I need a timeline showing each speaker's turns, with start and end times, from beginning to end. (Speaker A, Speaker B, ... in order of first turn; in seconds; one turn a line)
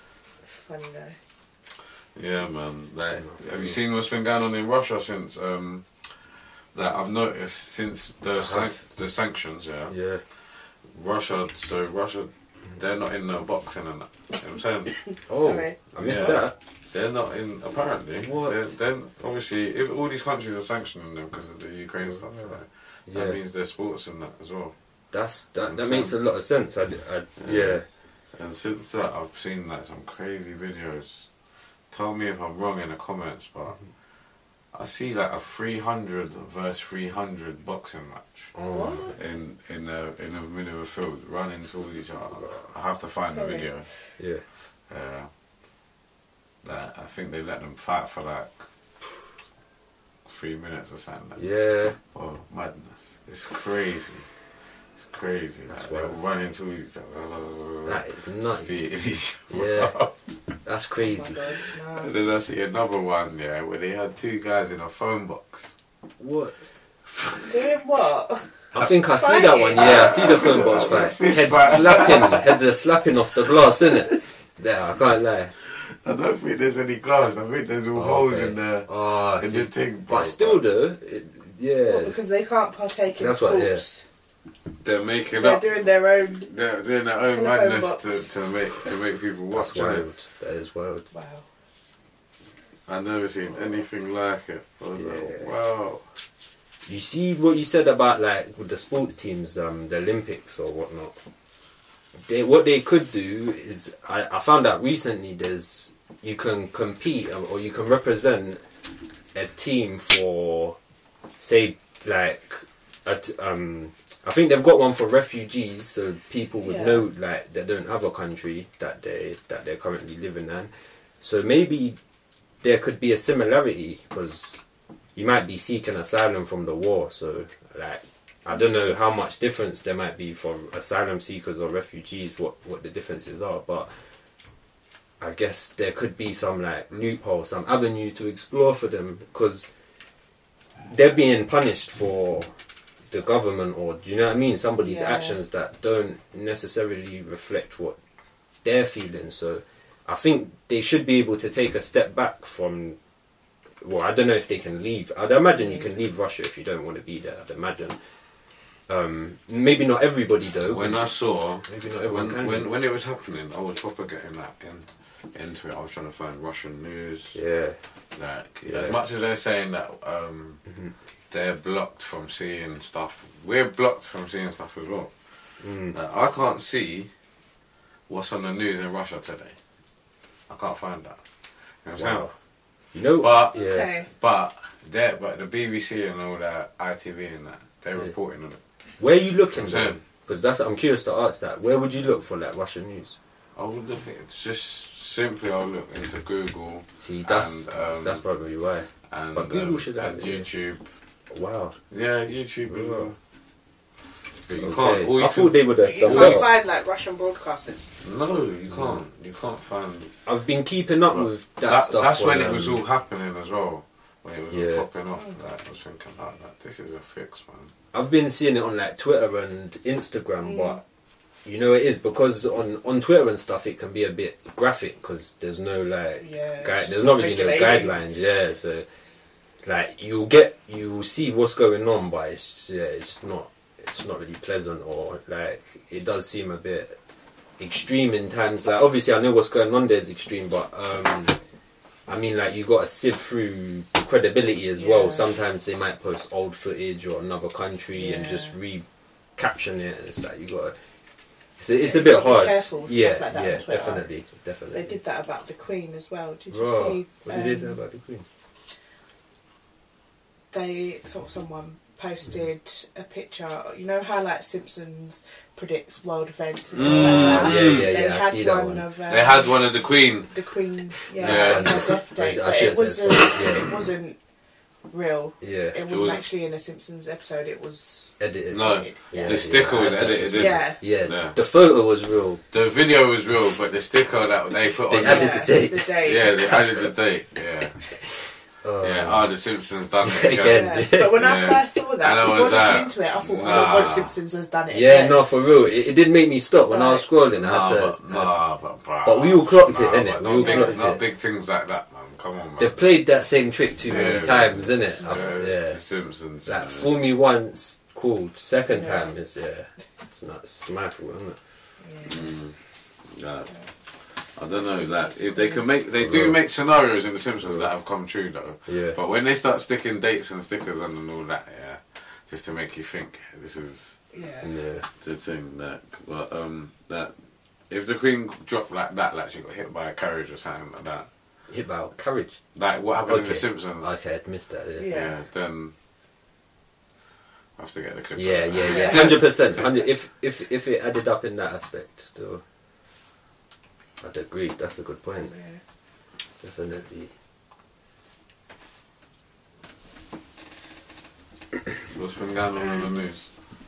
Speaker A: 0.4-1.2
Speaker B: 2.1-15.2
Speaker C: 3.2-3.7
Speaker C: 8.3-8.8
Speaker C: 9.9-10.2
Speaker C: 15.3-16.5
Speaker A: 15.3-15.8
Speaker B: 16.0-24.7
Speaker C: 18.2-18.5
Speaker C: 22.0-23.4
Speaker C: 25.1-27.8
Speaker B: 25.6-26.1
Speaker B: 27.4-31.3
Speaker B: 31.9-33.9
Speaker B: 34.7-38.5
Speaker C: 38.5-39.1
Speaker A: 38.7-39.1
Speaker B: 39.1-43.9
Speaker A: 43.2-44.1
Speaker C: 44.2-44.5
Speaker B: 44.5-45.3
Speaker B: 46.6-48.7
Speaker B: 50.2-51.5
Speaker C: 51.4-52.0
Speaker B: 52.0-58.0
Speaker C: 55.7-56.1
Speaker C: 57.8-58.7
Speaker B: 58.6-60.1
Speaker C: 59.5-60.0
Speaker C: 60.6-61.5
Speaker A: 61.0-62.1
Speaker B: 61.6-65.7
Speaker C: 66.2-66.7
Speaker B: 67.0-68.1
Speaker A: 67.4-71.1
Speaker C: 68.7-75.5
Speaker B: 69.8-72.5
Speaker B: 75.5-80.6
Speaker C: 77.9-82.2
Speaker A: 81.8-84.0
Speaker C: 83.2-83.8
Speaker B: 84.7-85.8
Speaker A: 85.3-86.5
Speaker B: 86.4-90.1
Speaker A: 87.3-88.4
Speaker C: 89.5-91.0
Speaker A: 91.1-91.5
Speaker B: 92.9-96.2
Speaker C: 95.0-95.5
Speaker C: 96.8-101.2
Speaker C: 102.2-108.6
Speaker C: 109.3-110.8
Speaker C: 111.4-122.0
Speaker A: 116.6-117.1
Speaker C: 122.6-124.6
Speaker C: 125.2-134.0
Speaker C: 135.2-139.7
Speaker C: 140.8-142.5
Speaker C: 143.1-148.0
Speaker A: 144.8-145.4
Speaker C: 148.6-153.0
Speaker C: 153.8-158.0
Speaker C: 158.9-162.7
Speaker B: 160.7-167.4
Speaker C: 167.3-167.8
Speaker B: 168.1-170.6
Speaker C: 168.6-169.0
Speaker B: 171.3-177.1
Speaker C: 175.6-175.9
Speaker B: 178.1-179.6
Speaker B: 180.5-182.3
Speaker C: 181.9-182.3
Speaker C: 182.9-183.9
Speaker B: 183.2-188.6
Speaker A: 183.5-184.1
Speaker C: 189.0-193.2
Speaker B: 189.5-190.0
Speaker B: 193.6-198.2
Speaker C: 197.0-200.5
Speaker B: 199.1-200.9
Speaker C: 201.3-201.8
Speaker B: 201.9-203.2
Speaker C: 202.7-203.1
Speaker B: 204.3-206.5
Speaker C: 204.5-206.5
Speaker A: 205.8-207.9
Speaker B: 208.0-210.1
Speaker C: 210.2-212.8
Speaker B: 211.1-217.7
Speaker C: 214.5-214.9
Speaker C: 217.9-220.8
Speaker A: 220.4-220.8
Speaker C: 221.4-228.9
Speaker A: 226.2-228.0
Speaker C: 229.6-237.0
Speaker C: 237.6-241.4
Speaker C: 242.1-250.8
Speaker A: 244.8-245.3
Speaker A: 247.9-248.6
Speaker C: 251.6-255.0
Speaker A: 251.8-254.1
Speaker A: 254.7-257.8
Speaker C: 256.5-258.2
Speaker A: 260.5-274.2
Speaker B: 266.7-267.9
Speaker C: 266.8-268.9
Speaker B: 269.1-270.5
Speaker B: 271.1-272.0
Speaker C: 271.1-273.8
Speaker A: 274.9-279.5
Speaker C: 275.4-275.8
Speaker B: 275.9-276.2
Speaker C: 278.2-282.4
Speaker B: 278.5-281.4
Speaker A: 280.3-280.8
Speaker B: 282.5-288.0
Speaker C: 284.9-286.9
Speaker A: 284.9-286.5
Speaker C: 288.0-289.3
Speaker B: 288.8-294.1
Speaker C: 290.0-291.4
Speaker A: 290.4-295.3
Speaker C: 293.3-293.9
Speaker C: 294.7-298.4
Speaker A: 296.7-297.1
Speaker B: 297.3-302.9
Speaker C: 299.0-301.0
Speaker A: 300.3-300.9
Speaker C: 302.6-305.8
Speaker B: 303.8-306.9
Speaker A: 305.0-305.4
Speaker C: 306.4-311.4
Speaker A: 308.7-309.1
Speaker A: 311.8-312.3
Speaker B: 312.0-324.0
Speaker A: 314.5-315.7
Speaker C: 316.0-316.4
Speaker C: 318.6-319.0
Speaker A: 324.1-324.5
Speaker C: 324.4-324.9
Speaker B: 324.9-331.1
Speaker C: 331.5-332.4
Speaker B: 332.5-334.0
Speaker C: 333.1-334.9
Speaker A: 334.8-335.1
Speaker B: 334.8-335.7
Speaker B: 337.6-339.7
Speaker C: 338.1-342.4
Speaker A: 338.6-339.2
Speaker C: 344.0-345.3
Speaker A: 345.2-345.6
Speaker C: 346.4-347.1
Speaker B: 351.9-353.3
Speaker A: 352.6-353.0